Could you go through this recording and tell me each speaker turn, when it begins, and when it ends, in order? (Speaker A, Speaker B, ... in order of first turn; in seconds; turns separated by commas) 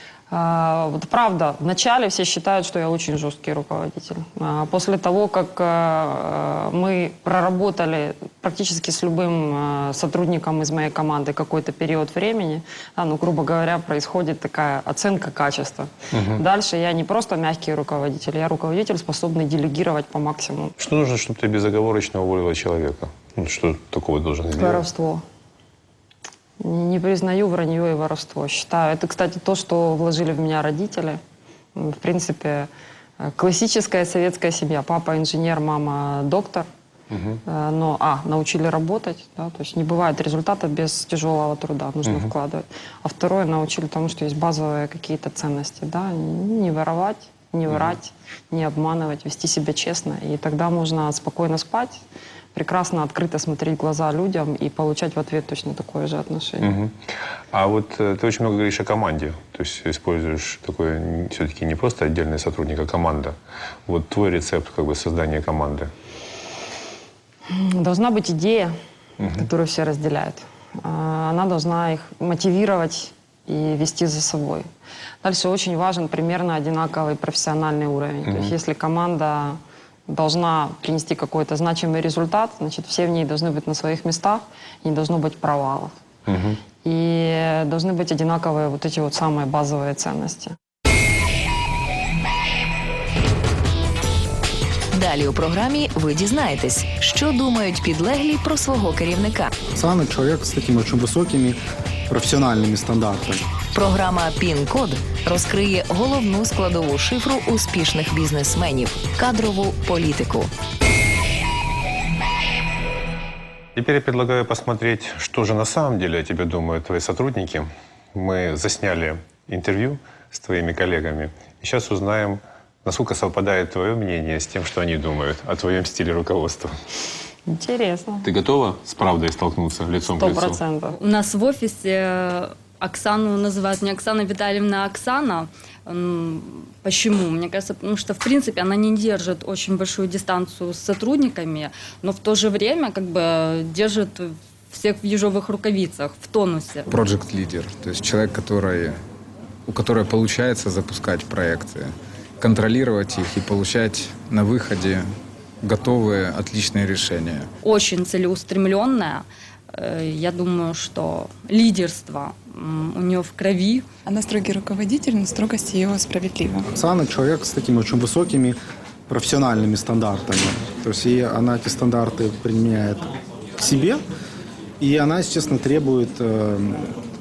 Speaker A: 0.3-20.8, Speaker B: 16.1-16.4, Speaker B: 20.8-24.8, Speaker A: 24.6-25.2, Speaker A: 26.6-31.2, Speaker A: 31.8-36.7, Speaker B: 37.1-37.4, Speaker A: 37.5-52.0, Speaker A: 52.5-56.7, Speaker B: 56.6-63.4, Speaker B: 63.9-65.9, Speaker A: 67.5-68.8, Speaker A: 69.3-74.7, Speaker A: 75.2-86.0, Speaker B: 78.3-78.5, Speaker B: 86.3-86.6, Speaker A: 86.8-90.6, Speaker C: 94.9-99.5, Speaker D: 99.7-103.4, Speaker C: 103.7-110.5, Speaker B: 113.8-126.8, Speaker A: 127.5-128.3, Speaker B: 128.2-130.6, Speaker A: 130.2-131.0, Speaker E: 131.0-146.9, Speaker F: 146.9-149.0, Speaker F: 149.7-155.1, Speaker F: 155.6-157.5, Speaker E: 157.6-163.8, Speaker G: 164.1-166.7, Speaker D: 166.7-168.6, Speaker D: 169.1-174.0, Speaker D: 174.8-177.0